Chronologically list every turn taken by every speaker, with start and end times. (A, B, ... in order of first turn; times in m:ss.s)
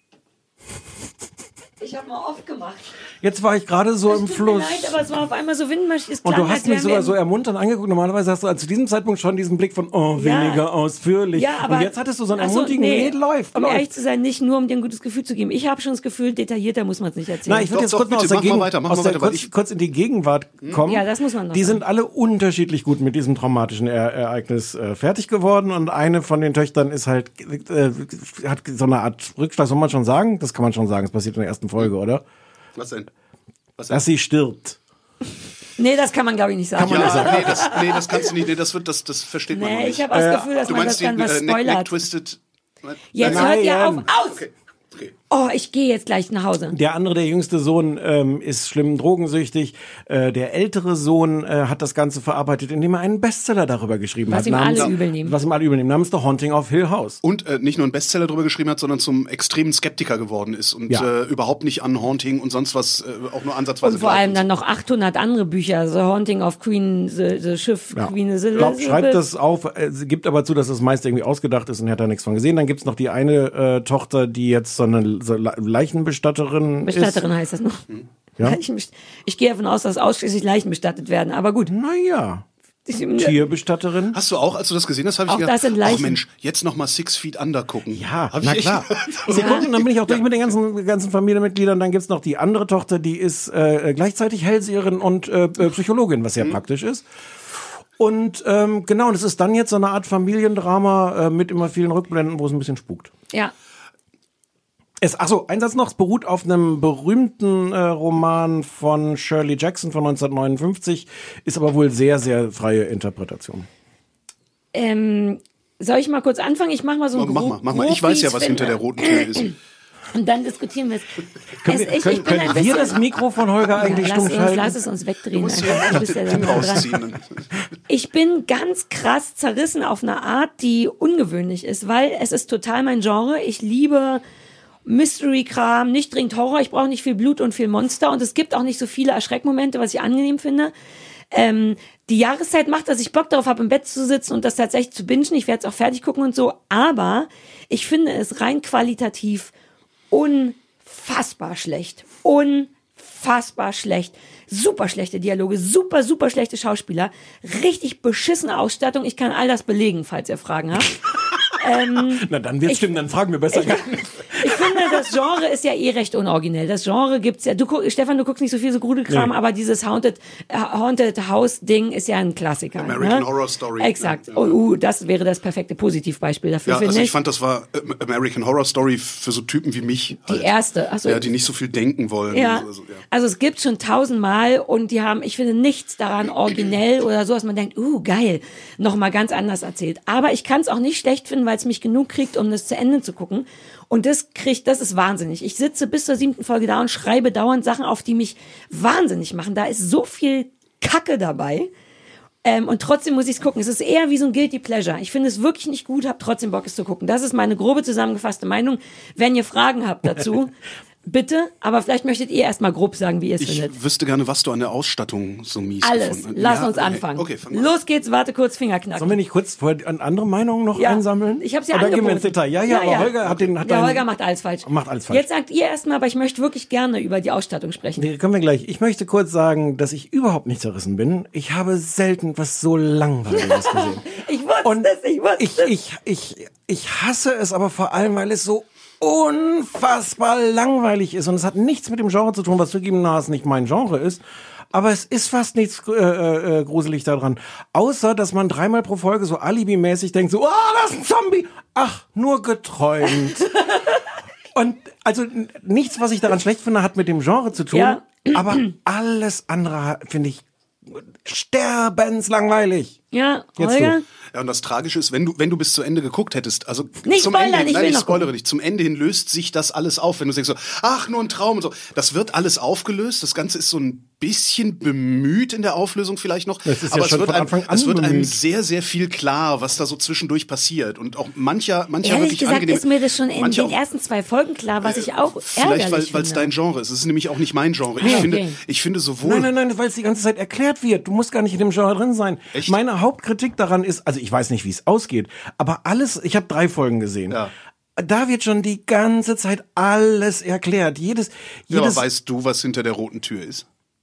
0:01.8-0:02.9 A
0:03.2-0:05.0 B
0:04.1-0:07.1 A
0:06.2-0:13.9 B
0:10.2-0:10.6 A
0:11.3-0:17.7 A
0:17.4-0:32.2 B
0:17.7-0:19.5 C
0:20.8-0:21.8 A
0:32.8-0:33.1 C
0:33.8-0:34.0 C
0:33.9-0:34.8 B
0:35.8-0:38.0 A
0:36.8-0:37.7 B
0:36.8-0:40.1 C
0:39.5-0:41.9 A
0:40.1-0:40.6 B
0:40.6-0:43.5 C
0:43.1-0:44.4 A
0:43.2-0:44.0 B
0:44.1-0:45.1 C
0:45.3-0:46.7 A
0:46.7-0:57.2 B
0:54.3-0:55.4 A
0:57.2-1:04.4 C
1:03.8-1:09.2 A
1:07.9-1:17.2 B
1:16.8-1:17.8 A
1:18.4-1:21.7 A
1:21.7-1:22.4 B
1:22.9-1:23.4 A
1:23.2-1:24.2 B
1:24.1-1:30.2 C
1:25.3-1:26.2 A
1:27.9-1:43.1 B
1:29.3-1:29.6 A
1:45.0-1:53.7 B
1:54.7-1:59.5 A
1:57.1-1:59.5 C
2:00.1-2:03.0 A
2:01.6-2:04.8 B
2:03.7-2:06.9 A
2:05.3-2:07.5 C
2:07.9-2:14.2 A
2:14.8-2:20.7 A
2:21.3-2:29.5 A
2:30.1-2:41.0 A
2:41.6-2:42.9 A
2:42.1-2:45.1 B
2:43.5-2:53.3 A
2:49.1-2:49.3 B
2:52.8-2:54.6 C
2:53.8-2:57.1 A
2:56.6-3:00.5 C
3:00.2-3:01.3 A
3:01.0-3:03.0 C
3:02.3-3:21.7 A
3:22.4-3:30.5 A
3:31.0-3:33.7 A
3:33.4-3:37.7 C
3:35.8-3:39.2 A
3:39.0-3:44.0 B
3:40.8-3:48.1 A
3:43.2-3:43.5 C
3:44.6-3:45.2 B
3:48.0-3:54.0 B
3:53.3-3:55.7 A
3:54.6-4:13.6 B
4:14.5-4:23.0 B
4:17.7-4:18.7 A
4:23.1-4:24.0 A
4:23.6-4:24.0 B
4:24.3-4:43.8 C
4:27.0-4:28.3 A
4:36.6-4:38.4 B
4:42.0-4:46.5 A
4:44.8-4:49.5 C
4:48.0-4:48.6 A
4:48.0-4:48.3 B
4:49.2-4:57.4 B
4:58.0-5:02.0 B
5:01.7-5:03.6 C